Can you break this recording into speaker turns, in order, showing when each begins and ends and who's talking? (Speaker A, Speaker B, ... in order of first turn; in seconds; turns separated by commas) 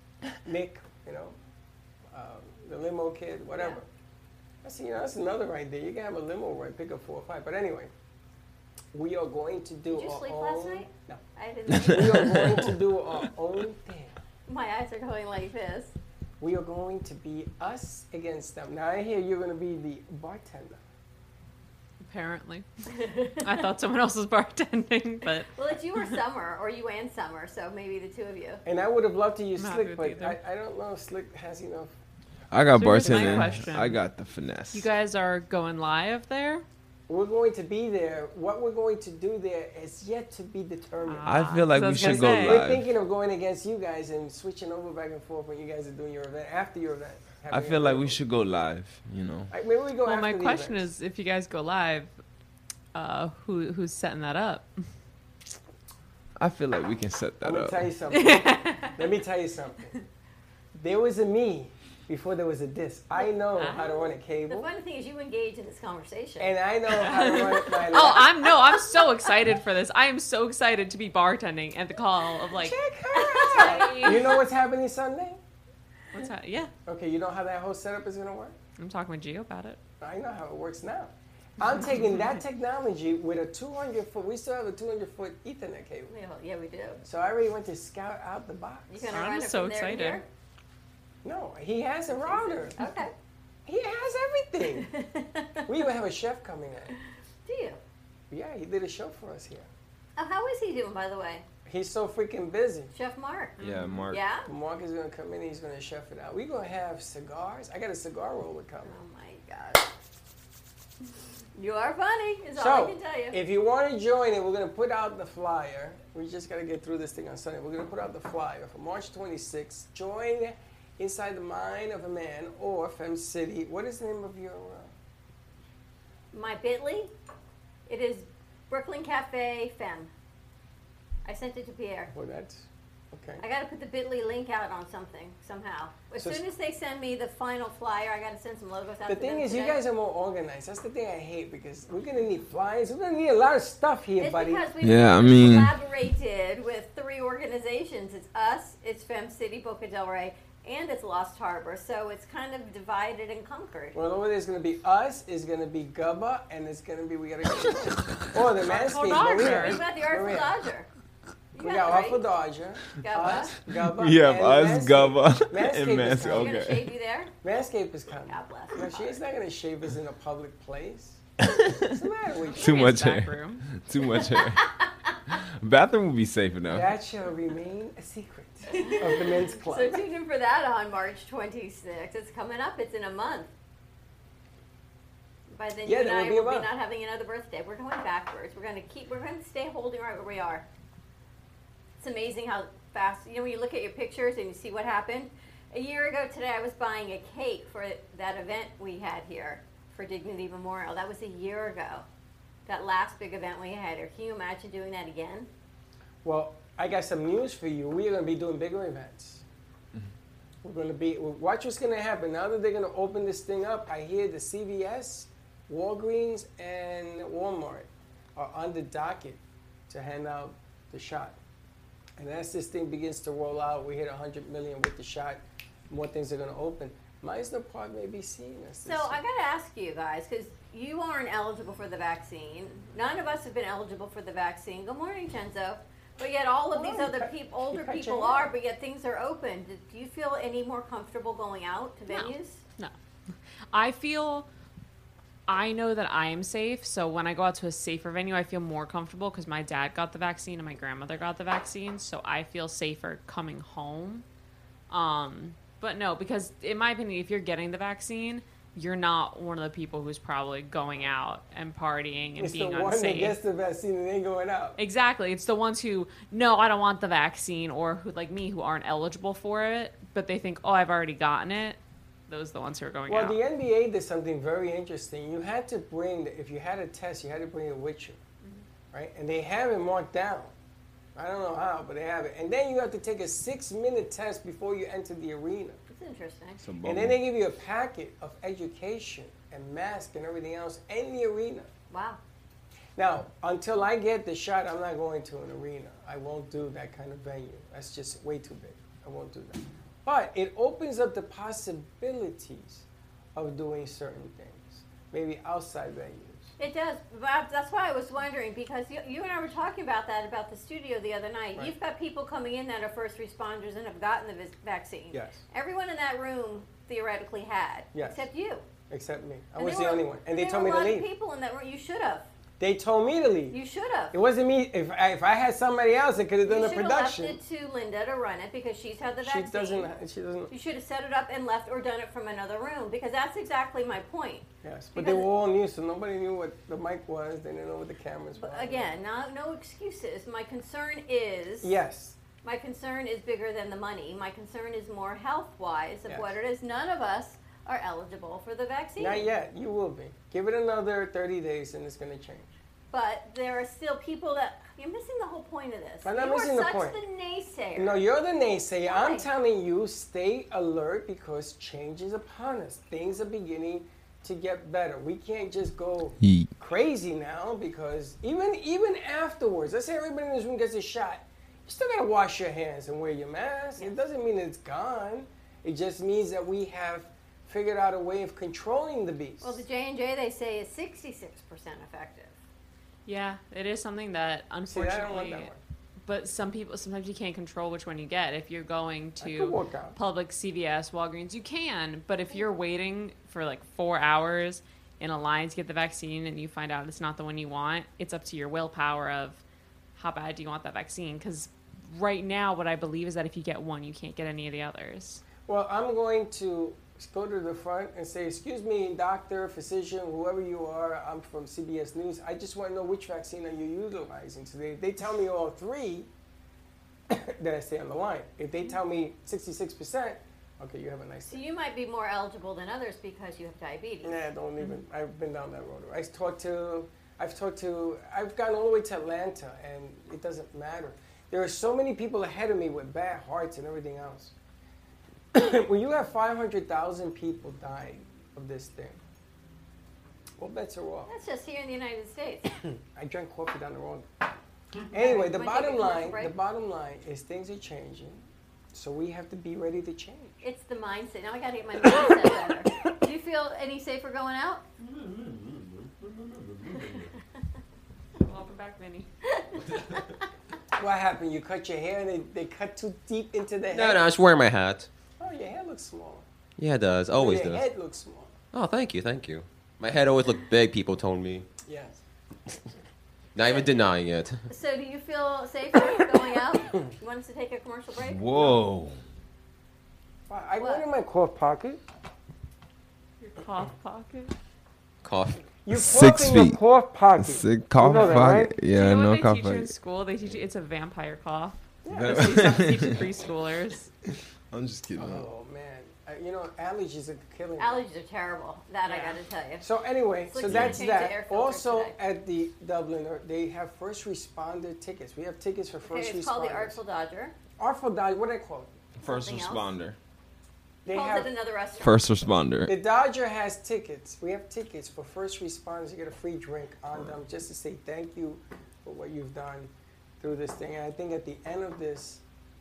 Speaker A: 0.4-1.4, Speaker A: 2.1-3.9, Speaker B: 3.5-3.8, Speaker A: 4.6-7.9, Speaker A: 8.9-14.2, Speaker B: 9.9-12.7, Speaker C: 12.2-12.6, Speaker B: 14.5-15.9, Speaker A: 16.4-20.8, Speaker D: 22.0-22.7, Speaker B: 22.9-23.6, Speaker D: 23.4-26.1, Speaker B: 25.5-28.6, Speaker A: 28.6-32.0, Speaker D: 29.6-30.4, Speaker C: 32.5-34.9, Speaker D: 32.7-34.0, Speaker A: 33.0-33.9, Speaker D: 34.7-36.6, Speaker A: 37.1-48.2, Speaker D: 41.0-42.6, Speaker C: 41.2-42.8, Speaker C: 47.5-49.5, Speaker A: 49.5-50.9, Speaker D: 50.0-52.1, Speaker D: 52.9-54.7, Speaker C: 56.4-57.9, Speaker A: 57.4-60.0, Speaker D: 58.1-59.0, Speaker A: 60.7-64.7, Speaker D: 63.6-63.8, Speaker B: 64.5-66.5, Speaker A: 66.4-68.3, Speaker D: 67.0-72.8, Speaker B: 68.5-69.0, Speaker A: 72.5-75.4, Speaker B: 73.3-74.1, Speaker D: 73.3-74.3, Speaker D: 76.1-76.7, Speaker A: 76.8-78.5, Speaker D: 78.8-79.8, Speaker A: 80.0-86.1, Speaker D: 81.8-82.2, Speaker B: 86.1-87.0, Speaker A: 87.0-89.1, Speaker B: 88.9-90.2, Speaker D: 89.1-90.2, Speaker A: 91.2-92.8, Speaker B: 92.3-93.1, Speaker A: 93.7-94.9, Speaker B: 94.6-95.7, Speaker A: 95.7-96.9, Speaker B: 97.5-97.8, Speaker A: 98.3-99.7, Speaker B: 100.2-101.5, Speaker A: 101.6-102.9, Speaker B: 102.9-103.6, Speaker D: 103.6-104.1, Speaker C: 103.6-104.2, Speaker B: 104.1-104.5, Speaker A: 104.5-109.0, Speaker B: 108.8-109.9, Speaker B: 111.5-113.4, Speaker A: 112.5-124.9, Speaker B: 126.3-127.1, Speaker B: 127.9-130.1, Speaker B: 131.2-132.1, Speaker A: 132.1-133.4, Speaker B: 133.4-139.8, Speaker A: 136.2-136.4, Speaker A: 139.1-144.6, Speaker B: 144.2-154.0, Speaker C: 144.8-145.7, Speaker A: 153.9-160.6, Speaker D: 158.6-159.8, Speaker B: 159.2-160.9, Speaker B: 161.5-162.2, Speaker A: 161.5-166.7, Speaker B: 163.0-163.6, Speaker C: 163.9-166.9, Speaker B: 166.3-167.3, Speaker A: 167.4-171.2, Speaker B: 168.3-169.2, Speaker C: 171.5-171.9, Speaker A: 171.8-172.9, Speaker D: 172.5-173.8, Speaker C: 172.6-174.7, Speaker C: 175.3-176.9, Speaker A: 176.7-180.0, Speaker B: 178.7-183.5, Speaker B: 185.5-190.6, Speaker A: 185.8-186.7, Speaker B: 192.0-202.1, Speaker B: 202.7-205.5, Speaker A: 206.2-209.4, Speaker A: 210.6-221.4, Speaker A: 222.2-229.2, Speaker B: 228.8-242.6, Speaker A: 236.7-238.5, Speaker D: 242.1-242.9, Speaker D: 243.7-244.5, Speaker D: 245.5-254.2, Speaker D: 254.9-263.4, Speaker A: 262.4-264.8, Speaker D: 264.8-273.4, Speaker A: 273.1-278.2, Speaker A: 278.9-280.5, Speaker A: 281.1-285.8, Speaker B: 285.9-286.6, Speaker C: 286.6-287.2, Speaker A: 286.8-291.7, Speaker B: 291.9-292.2, Speaker A: 292.9-306.5, Speaker B: 306.6-318.6, Speaker A: 315.1-315.4, Speaker A: 317.9-318.2, Speaker A: 318.9-321.1, Speaker B: 319.6-322.3, Speaker A: 322.6-323.6, Speaker B: 323.5-324.2, Speaker A: 324.1-327.4, Speaker B: 326.4-329.9, Speaker A: 329.2-330.5, Speaker B: 330.5-335.3, Speaker A: 334.6-339.0, Speaker B: 338.4-341.8, Speaker A: 341.6-342.1, Speaker B: 342.4-349.2, Speaker A: 346.1-346.3, Speaker A: 349.0-352.6, Speaker B: 352.9-358.1, Speaker A: 356.0-357.0, Speaker A: 357.8-379.6, Speaker B: 358.9-359.3, Speaker C: 366.2-366.5, Speaker B: 379.4-382.4, Speaker D: 383.1-385.5, Speaker A: 384.7-385.6, Speaker D: 386.1-399.4, Speaker A: 389.2-390.0, Speaker D: 399.9-405.2, Speaker A: 405.4-416.1, Speaker A: 417.1-421.4, Speaker B: 421.3-424.2, Speaker A: 424.0-434.3, Speaker A: 435.3-439.0, Speaker A: 440.4-441.1, Speaker B: 441.1-442.6, Speaker A: 442.6-444.1, Speaker A: 444.9-448.2, Speaker B: 444.9-446.3, Speaker A: 448.7-450.4, Speaker B: 450.4-454.6, Speaker D: 458.2-459.1, Speaker A: 460.8-464.1, Speaker E: 463.7-464.9, Speaker A: 465.2-466.2, Speaker E: 466.6-467.7, Speaker A: 467.1-468.3, Speaker E: 468.5-471.5, Speaker A: 471.6-472.0, Speaker E: 473.3-474.4, Speaker B: 474.5-478.6, Speaker C: 478.0-479.0, Speaker A: 480.3-481.8, Speaker B: 480.6-480.9, Speaker D: 483.2-484.3, Speaker E: 485.0-485.6, Speaker A: 485.6-488.5, Speaker C: 485.7-486.6, Speaker C: 487.2-489.7, Speaker D: 488.7-493.9, Speaker A: 491.8-492.7, Speaker C: 491.9-493.0, Speaker C: 494.5-495.3, Speaker A: 494.9-497.8, Speaker B: 497.6-499.6, Speaker D: 498.9-499.2, Speaker A: 499.6-506.8, Speaker B: 500.3-501.9, Speaker C: 500.4-500.8, Speaker B: 505.8-507.3, Speaker A: 507.6-508.7, Speaker C: 509.0-510.0, Speaker B: 509.0-509.7, Speaker A: 510.8-511.3, Speaker B: 510.9-512.0, Speaker C: 511.8-512.7, Speaker A: 512.6-522.2